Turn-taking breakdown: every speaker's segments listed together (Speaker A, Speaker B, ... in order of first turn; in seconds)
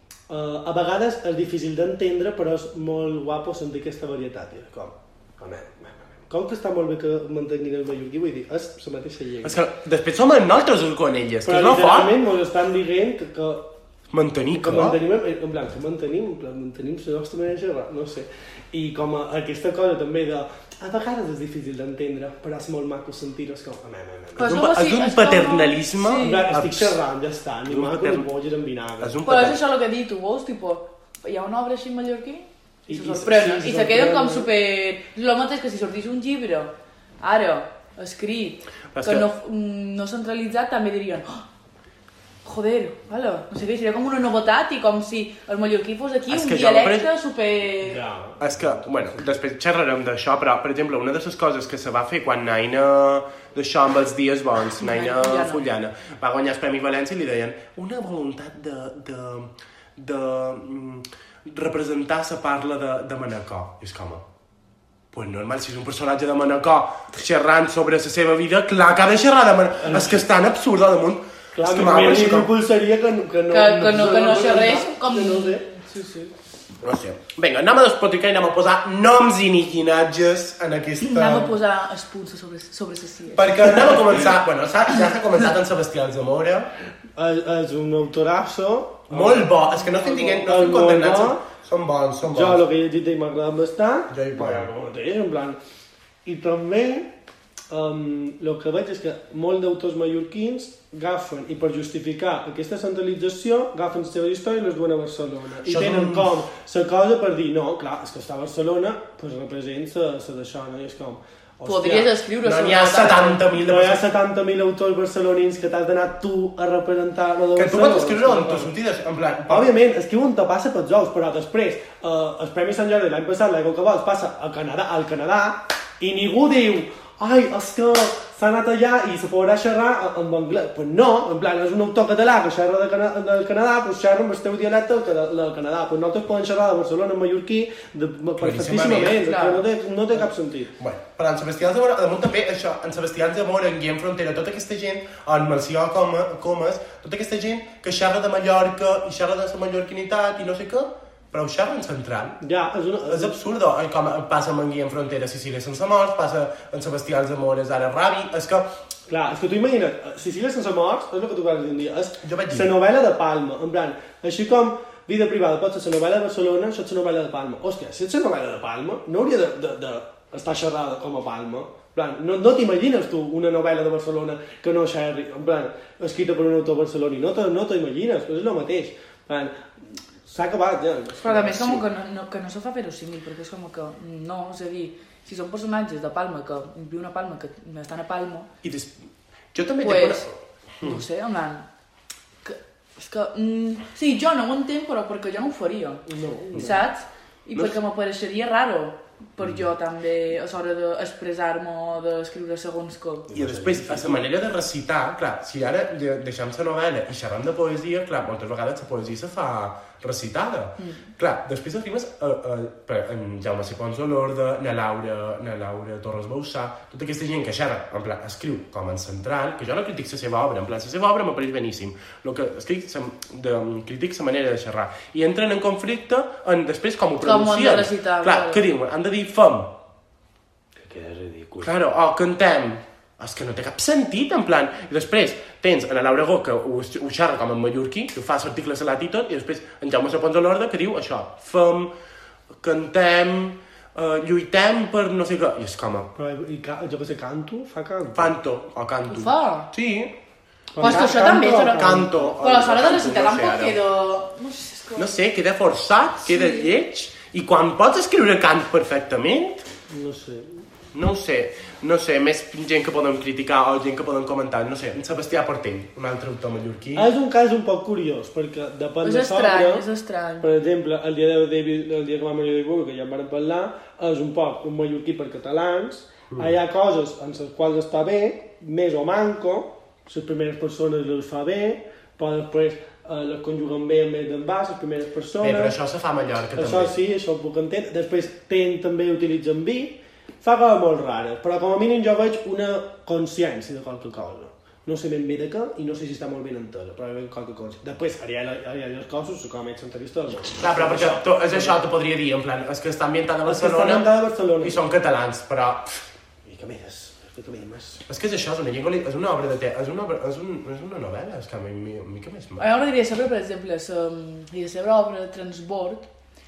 Speaker A: 0.3-9.6, 11.5-13.7, 14.5-24.6, 26.2-29.2, 32.9-34.5, 47.8-48.5, 69.8-70.2, 71.5-75.7, 87.2-91.4, 92.2-95.6, 96.2-97.1, 97.7-112.1, 113.6-118.7, 119.5-140.7, 152.4-153.4, 159.1-179.7, 180.2-181.8, 196.1-196.8, 203.3-204.3, 230.8-231.7, 246.2-248.3, 250.7-252.3, 259.9-260.6, 266.9-269.9, 270.4-285.8, 286.6-301.8, 303.5-304.8, 306.4-308.1
Speaker B: 9.4-12.2, 14.1-15.0, 24.4-27.0, 27.7-28.3, 29.0-29.6, 38.9-39.3, 46.3-47.1, 48.4-64.2, 65.1-72.5, 76.8-81.6, 83.3-86.7, 89.1-92.6, 94.1-94.7, 105.7-106.3, 112.4-114.1, 117.5-119.7, 138.4-139.2, 140.1-152.4, 153.1-158.7, 162.2-162.7, 188.6-188.9, 189.5-191.0, 203.3-229.8, 231.6-241.9, 242.5-246.1, 248.1-250.1, 250.8-253.8, 255.0-259.6, 260.9-267.1, 285.4-286.9, 300.6-306.0, 308.1-312.6
Speaker C: 24.4-26.5, 29.2-41.5, 42.4-48.0, 54.8-55.6, 73.5-76.3, 81.0-84.0, 111.7-113.5, 139.1-139.7, 181.2-188.5, 189.8-190.3, 190.8-191.7, 192.4-203.3, 210.8-211.1, 227.2-228.7, 249.1-249.7, 250.8-255.1, 256.3-256.7, 269.0-270.5, 312.6-316.1